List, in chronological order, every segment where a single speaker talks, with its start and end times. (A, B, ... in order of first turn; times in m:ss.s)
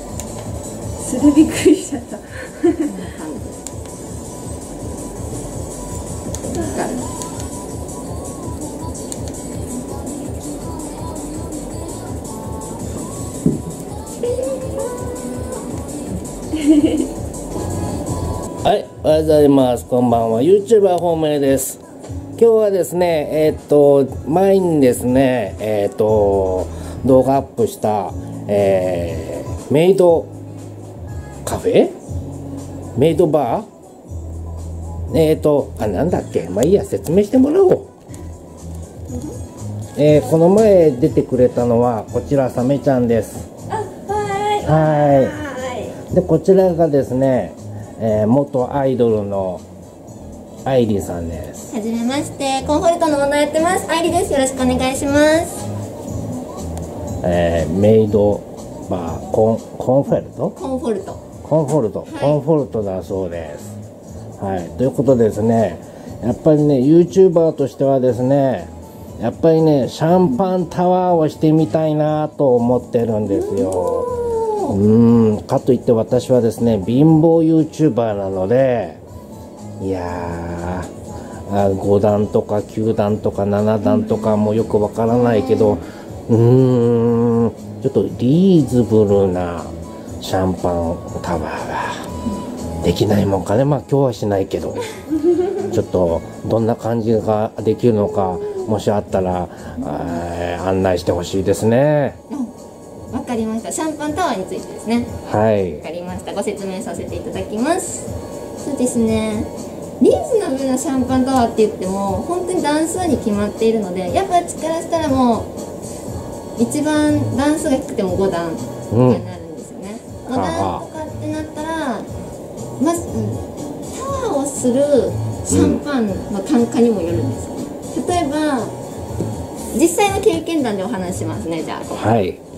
0:01.0-0:03.0 A
0:02.8-0:03.6 B
0:06.3-0:07.1 B
0:16.6-0:17.0 A
0:18.6-0:21.8 C
0:22.4-0:30.3 C
0:31.4-0:32.0 C
0:33.0-0:33.7 C
0:35.1-0:37.9 C
0:39.1-0:39.4 A
0:40.0-0:43.5 C
0:43.7-0:46.0 A
0:44.6-0:45.4 C
0:46.1-0:49.6 C
0:50.6-0:51.7 C
0:51.7-0:55.7 B
0:57.2-1:00.6 C
1:00.6-1:01.2 B
1:01.4-1:03.8 C
1:02.1-1:02.4 B
1:04.4-1:14.1 C
1:13.3-1:14.8 B
1:14.7-1:19.0 C
1:19.8-1:20.9 C
1:21.5-1:32.1 C
1:32.8-1:34.8 C
1:35.7-1:42.2 C
1:39.8-1:40.2 B
1:43.1-1:45.2 B
1:45.2-1:45.8 C
1:45.8-1:55.5 B
1:56.6-2:02.1 B
1:58.9-1:59.2 C
2:00.3-2:00.8 C
2:02.8-2:08.8 B
2:05.5-2:05.8 C
2:09.7-2:12.1 B
2:11.9-2:12.4 C